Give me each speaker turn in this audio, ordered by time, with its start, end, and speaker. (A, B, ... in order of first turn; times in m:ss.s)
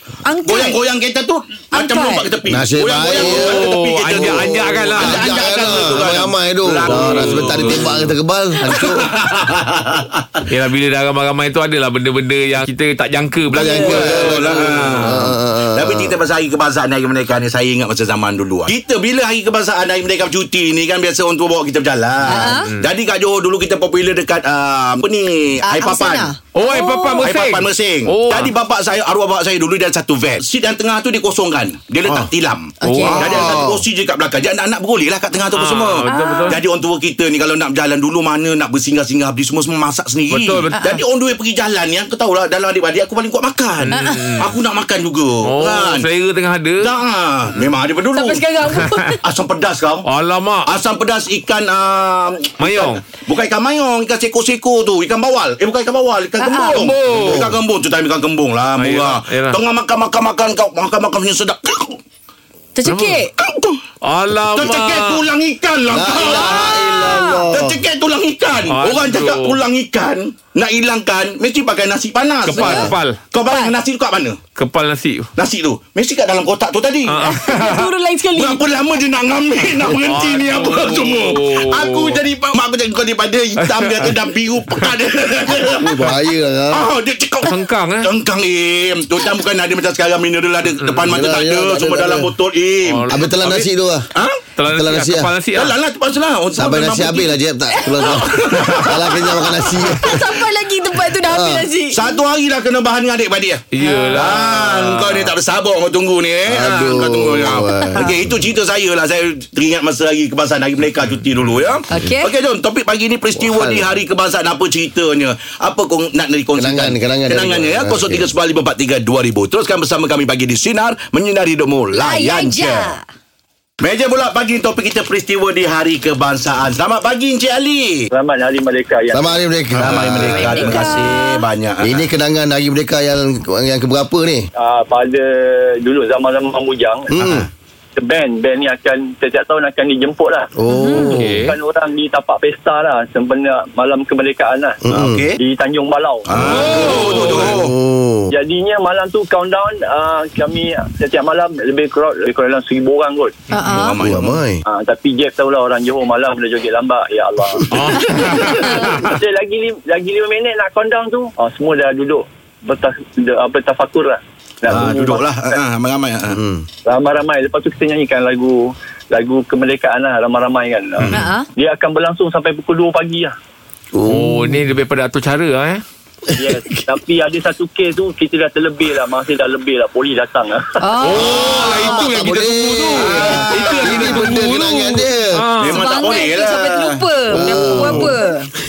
0:00.2-0:00.8 A
0:00.4-0:08.1 B
0:01.7-0:02.3 A
0:02.5-0:09.1 C
0:03.2-0:06.0 D
0:06.8-0:07.9 D
0:08.6-0:10.4 B
0:10.5-0:14.6 D
0:13.5-0:16.1 C
0:13.6-0:26.3 B
0:22.3-0:22.7 A
0:22.3-0:22.9 D
0:25.6-0:27.3 A
0:26.5-0:28.5 D
0:27.2-0:46.0 B
0:32.8-0:33.3 A
0:32.8-0:33.2 D
0:33.2-0:33.8 C
0:35.5-0:36.6 D
0:36.0-0:36.6 A
0:40.3-0:40.7 D
0:40.7-0:41.0 A
0:43.8-0:44.4 D
0:43.9-0:44.4 A
0:45.4-0:46.9 D
0:46.8-0:48.4 B
0:48.1-0:49.2 A
0:49.2-0:50.0 B
0:50.0-0:50.7 D
0:50.6-1:02.0 B
0:52.6-0:53.0 D
0:56.4-0:56.8 A
0:56.7-0:57.5 D
0:57.1-0:57.6 C
0:58.8-0:59.6 D
1:02.8-1:03.3 A
1:02.9-1:03.2 D
1:03.4-1:03.8 B
1:04.0-1:05.2 D
1:04.5-1:06.8 B
1:05.9-1:07.8 C
1:06.2-1:07.4 A
1:07.5-1:14.4 B
1:08.7-1:09.6 D
1:12.4-1:13.2 D
1:12.5-1:12.9 A
1:13.5-1:13.7 A
1:14.5-1:15.3 D
1:15.4-1:17.2 B
1:17.0-1:17.9 D
1:17.2-1:18.7 A
1:18.3-1:26.0 B
1:19.8-1:22.2 D
1:23.6-1:24.1 D
1:25.8-1:26.8 C
1:26.7-1:34.4 B
1:27.4-1:28.1 D
1:31.0-1:32.3 C
1:32.8-1:33.2 D
1:33.1-1:34.1 C
1:34.6-1:35.7 D
1:34.7-1:35.3 C
1:35.5-1:37.4 B
1:36.6-1:40.2 C
1:38.0-1:39.1 B
1:40.0-1:42.1 A
1:41.2-1:41.7 C
1:41.9-2:02.9 B
1:43.7-1:45.2 D
1:43.8-1:44.2 A
1:46.5-1:48.2 C
1:51.9-1:52.3 A
1:53.4-1:53.9 C
1:56.6-1:58.3 C
2:02.0-2:03.0 A
2:03.8-2:08.1 B
2:08.1-2:09.4 E
2:09.1-2:10.7 C
2:09.7-2:12.1 B
2:10.4-2:11.4 A
2:11.8-2:14.5 C
2:14.6-2:17.1 E
2:17.1-2:17.5 C
2:17.1-2:17.5 B
2:18.0-2:20.5 E
2:20.6-2:21.4 C
2:20.7-2:21.1 A
2:21.0-2:21.6 D
2:21.3-2:24.8 E
2:24.8-2:25.2 C
2:24.9-2:25.4 B
2:25.4-2:27.5 E
2:26.2-2:27.7 B
2:26.4-2:27.5 D
2:26.4-2:28.3 C
2:28.3-2:33.3 E
2:33.5-2:34.0 A
2:33.6-2:34.4 B
2:34.0-2:34.6 C
2:34.7-2:45.6 E
2:37.7-2:39.1 D
2:38.6-2:38.8 A
2:44.7-2:46.4 B
2:46.3-2:46.6 C
2:46.8-2:48.6 E
2:49.1-2:53.3 E
2:51.1-2:51.5 A
2:53.9-2:54.6 C
2:54.1-2:55.8 D
2:56.4-3:00.8 E
3:00.8-3:02.1 A
3:01.0-3:05.9 D
3:01.1-3:05.4 C
3:03.0-3:04.1 B
3:03.3-3:03.8 A
3:05.6-3:07.0 B
3:05.6-3:08.5 A
3:07.3-3:08.2 C
3:07.6-3:08.0 B